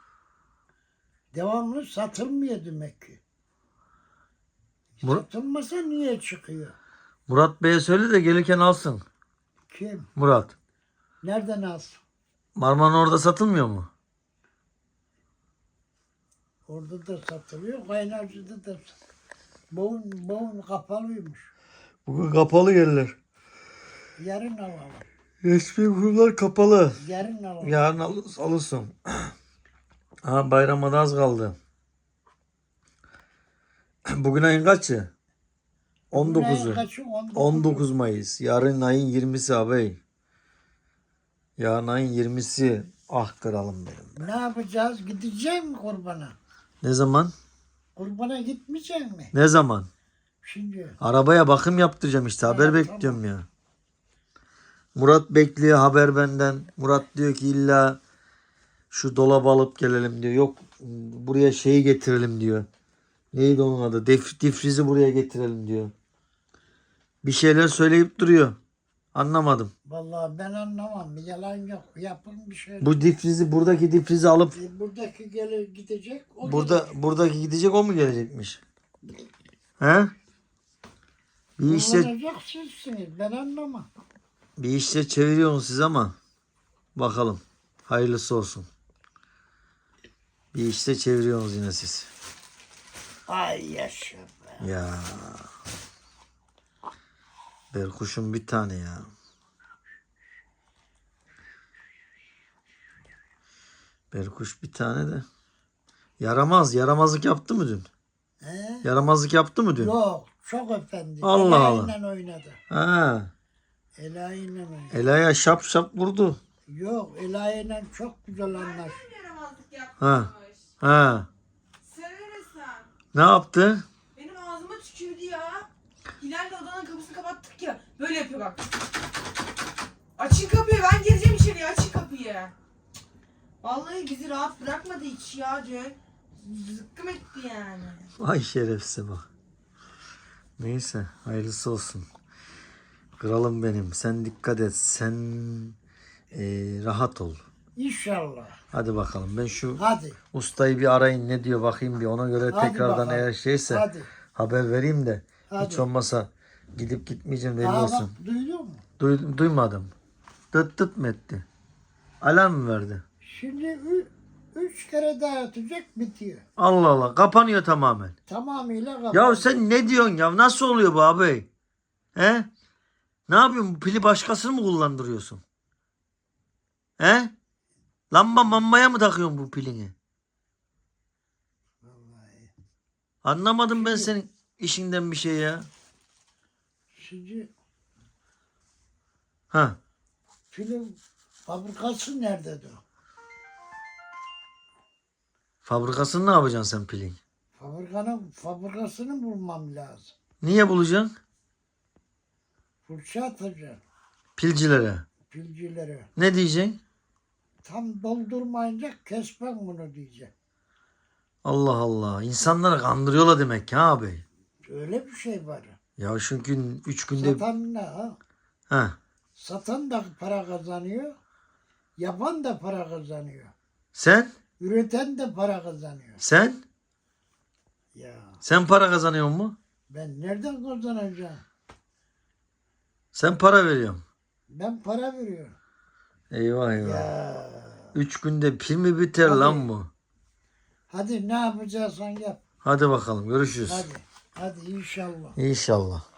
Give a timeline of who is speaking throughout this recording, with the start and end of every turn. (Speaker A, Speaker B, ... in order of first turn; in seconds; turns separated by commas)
Speaker A: 1.3-3.2, Speaker A: 5.0-6.7, Speaker B: 7.3-9.0, Speaker A: 9.7-10.1, Speaker B: 10.2-10.5, Speaker A: 11.2-12.0, Speaker B: 12.6-13.9, Speaker A: 16.7-18.9, Speaker A: 19.7-21.5, Speaker B: 22.1-23.1, Speaker A: 24.2-25.1, Speaker B: 25.4-27.0, Speaker A: 27.0-27.8, Speaker B: 27.6-29.3, Speaker B: 30.2-31.5, Speaker B: 34.1-35.1, Speaker B: 36.1-36.8, Speaker A: 36.1-37.9, Speaker B: 37.3-40.0, Speaker B: 41.6-44.2, Speaker A: 44.1-46.3, Speaker B: 46.8-47.3, Speaker A: 48.0-49.3, Speaker B: 49.3-49.9, Speaker A: 50.4-51.0, Speaker B: 51.0-53.5, Speaker A: 52.4-53.2, Speaker B: 55.0-58.0, Speaker B: 58.9-62.7, Speaker B: 63.3-65.9, Speaker B: 67.2-68.5, Speaker B: 69.1-69.7, Speaker A: 69.8-73.0, Speaker B: 72.8-74.5, Speaker A: 74.5-76.9, Speaker B: 76.4-78.6, Speaker B: 79.8-80.1, Speaker B: 81.6-82.1, Speaker A: 81.6-83.9, Speaker B: 84.6-86.2, Speaker B: 86.9-88.7, Speaker B: 90.5-92.1, Speaker A: 93.3-94.7, Speaker B: 94.6-95.5, Speaker B: 97.7-99.1, Speaker B: 104.1-105.2, Speaker B: 106.2-107.9, Speaker A: 108.4-108.8, Speaker B: 108.8-109.9, Speaker A: 109.8-112.6, Speaker B: 111.2-111.9, Speaker B: 112.7-113.3, Speaker A: 114.0-114.9, Speaker B: 114.9-116.4, Speaker A: 116.7-119.0, Speaker C: 118.5-120.6, Speaker B: 120.0-121.3, Speaker C: 121.8-122.9, Speaker B: 123.1-123.8, Speaker C: 124.1-125.7, Speaker C: 126.2-128.7, Speaker C: 130.2-132.5, Speaker C: 133.6-138.1, Speaker B: 138.2-139.2, Speaker B: 140.6-142.1, Speaker B: 143.2-145.7, Speaker B: 146.3-147.4, Speaker A: 147.8-148.6, Speaker B: 148.7-158.1, Speaker A: 149.8-150.2, Speaker A: 152.5-154.1, Speaker A: 155.5-155.8, Speaker A: 157.6-158.8, Speaker B: 159.0-159.9, Speaker B: 160.5-161.4, Speaker B: 162.2-163.0, Speaker A: 163.2-166.4, Speaker B: 166.6-168.1, Speaker A: 168.3-169.6, Speaker B: 169.1-171.5, Speaker B: 172.2-172.5, Speaker B: 173.3-175.4, Speaker B: 177.0-177.3, Speaker B: 178.1-179.9, Speaker A: 181.8-182.5, Speaker B: 183.2-185.7, Speaker A: 183.7-184.1, Speaker A: 186.9-187.5, Speaker B: 189.5-189.8, Speaker A: 190.5-192.8, Speaker B: 195.6-197.2, Speaker A: 197.6-200.1, Speaker B: 200.4-201.1, Speaker A: 202.8-203.8, Speaker B: 204.4-205.0, Speaker A: 205.3-206.1, Speaker B: 206.2-206.8, Speaker A: 207.6-210.3, Speaker B: 211.4-214.2, Speaker A: 214.7-215.8, Speaker B: 216.0-217.4, Speaker A: 217.2-218.2, Speaker B: 218.7-218.9, Speaker A: 219.4-221.2, Speaker A: 222.0-223.5, Speaker B: 223.9-224.3, Speaker A: 224.6-226.2, Speaker B: 226.2-226.6, Speaker A: 227.9-228.4, Speaker B: 228.4-229.6, Speaker A: 229.9-231.4, Speaker B: 233.1-234.0, Speaker A: 234.5-235.6, Speaker B: 236.3-237.1, Speaker A: 236.8-237.9, Speaker B: 237.9-239.9, Speaker A: 239.2-239.7, Speaker A: 240.9-242.4, Speaker B: 242.6-243.9, Speaker A: 243.6-245.4, Speaker B: 245.3-246.0